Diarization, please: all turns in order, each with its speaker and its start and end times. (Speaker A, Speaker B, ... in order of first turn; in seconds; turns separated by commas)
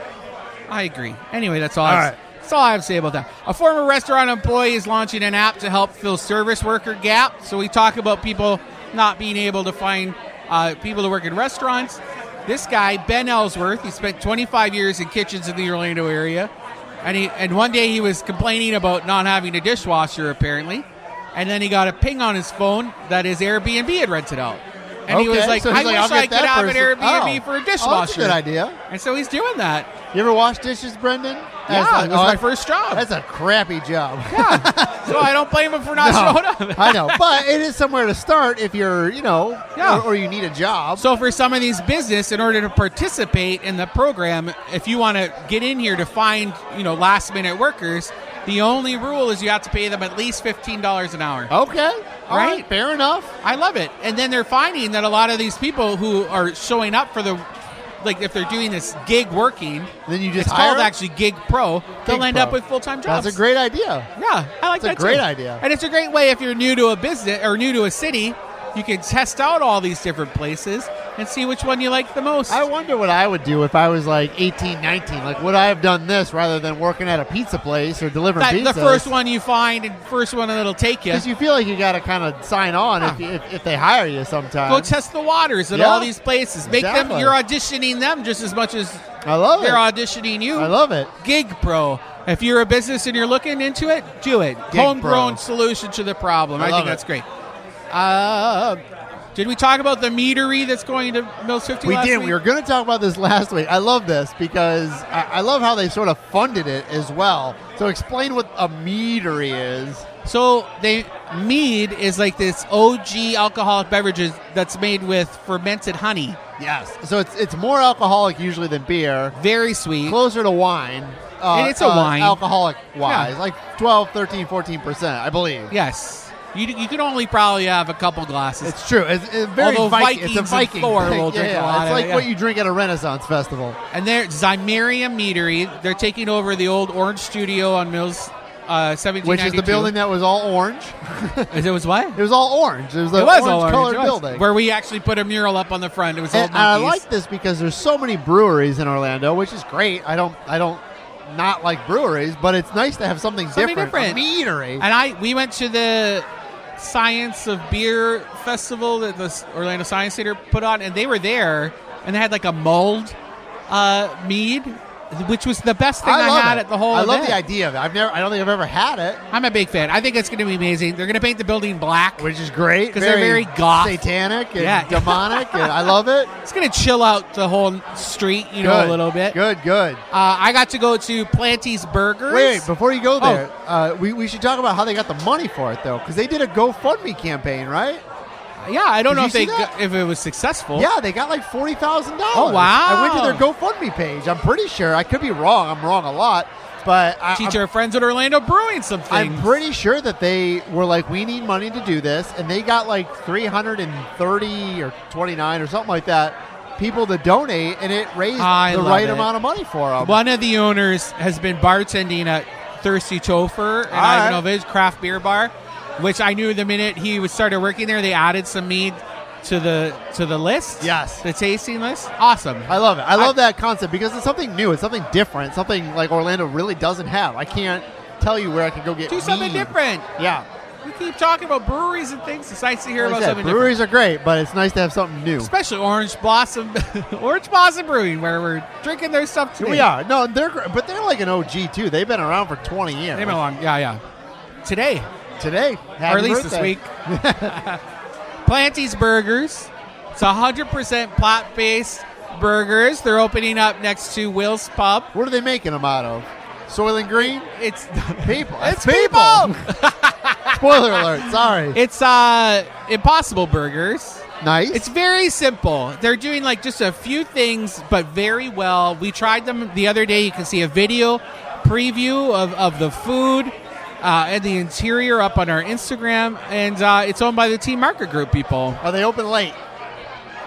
Speaker A: 0.7-16.5, Speaker B: 1.8-2.2, Speaker A: 17.0-29.9, Speaker B: 25.1-28.8, Speaker B: 30.1-35.3, Speaker A: 31.7-33.1, Speaker A: 34.3-37.4, Speaker B: 35.9-41.0, Speaker A: 39.8-40.0, Speaker A: 41.0-51.5, Speaker B: 51.5-53.3, Speaker A: 52.3-52.7, Speaker A: 53.4-57.5, Speaker A: 58.0-63.4, Speaker B: 60.1-60.9, Speaker B: 62.0-64.1, Speaker A: 64.2-72.7, Speaker B: 64.8-65.6, Speaker B: 72.5-79.1, Speaker A: 78.4-81.3, Speaker B: 81.1-84.9, Speaker A: 84.7-89.0, Speaker B: 85.7-86.1, Speaker B: 86.6-87.3, Speaker B: 89.2-89.8, Speaker A: 89.6-97.3, Speaker B: 90.5-91.1, Speaker B: 94.7-95.4, Speaker B: 96.6-97.0, Speaker A: 97.9-98.8, Speaker A: 99.3-102.4, Speaker B: 101.8-110.1, Speaker A: 110.2-116.4, Speaker B: 116.6-119.3, Speaker A: 119.3-120.2, Speaker B: 120.0-125.7, Speaker A: 121.5-122.4, Speaker A: 123.0-123.3, Speaker A: 125.7-128.8, Speaker B: 128.6-133.8, Speaker A: 129.6-132.3, Speaker A: 133.9-139.9, Speaker B: 139.2-141.5, Speaker A: 141.5-142.2, Speaker B: 142.1-144.4, Speaker A: 143.1-147.0, Speaker B: 146.3-154.8, Speaker A: 153.5-154.2, Speaker A: 154.8-163.2, Speaker A: 163.7-167.4, Speaker B: 166.0-169.2, Speaker A: 169.3-172.3, Speaker B: 172.2-176.3, Speaker A: 172.9-174.0, Speaker A: 174.6-179.4, Speaker B: 178.6-180.0, Speaker A: 180.1-182.7, Speaker B: 182.3-188.0, Speaker A: 183.2-183.4, Speaker A: 188.6-190.9, Speaker B: 189.1-189.7, Speaker B: 190.7-197.6, Speaker A: 192.3-193.4, Speaker A: 197.3-199.5, Speaker B: 199.1-210.2, Speaker A: 208.3-209.3, Speaker A: 210.0-223.3, Speaker B: 213.9-214.4, Speaker B: 220.8-221.2, Speaker B: 222.7-230.4, Speaker A: 229.1-230.1, Speaker A: 230.8-233.8, Speaker B: 233.0-235.5, Speaker A: 235.4-239.9, Speaker B: 239.6-243.4, Speaker A: 243.1-244.0, Speaker A: 244.6-245.1, Speaker B: 245.4-247.6, Speaker A: 246.1-246.9, Speaker A: 247.4-247.8, Speaker A: 248.4-255.1, Speaker B: 255.1-257.5, Speaker A: 257.5-278.8, Speaker B: 258.2-259.7, Speaker B: 260.5-261.8, Speaker B: 264.4-264.9, Speaker B: 278.8-279.6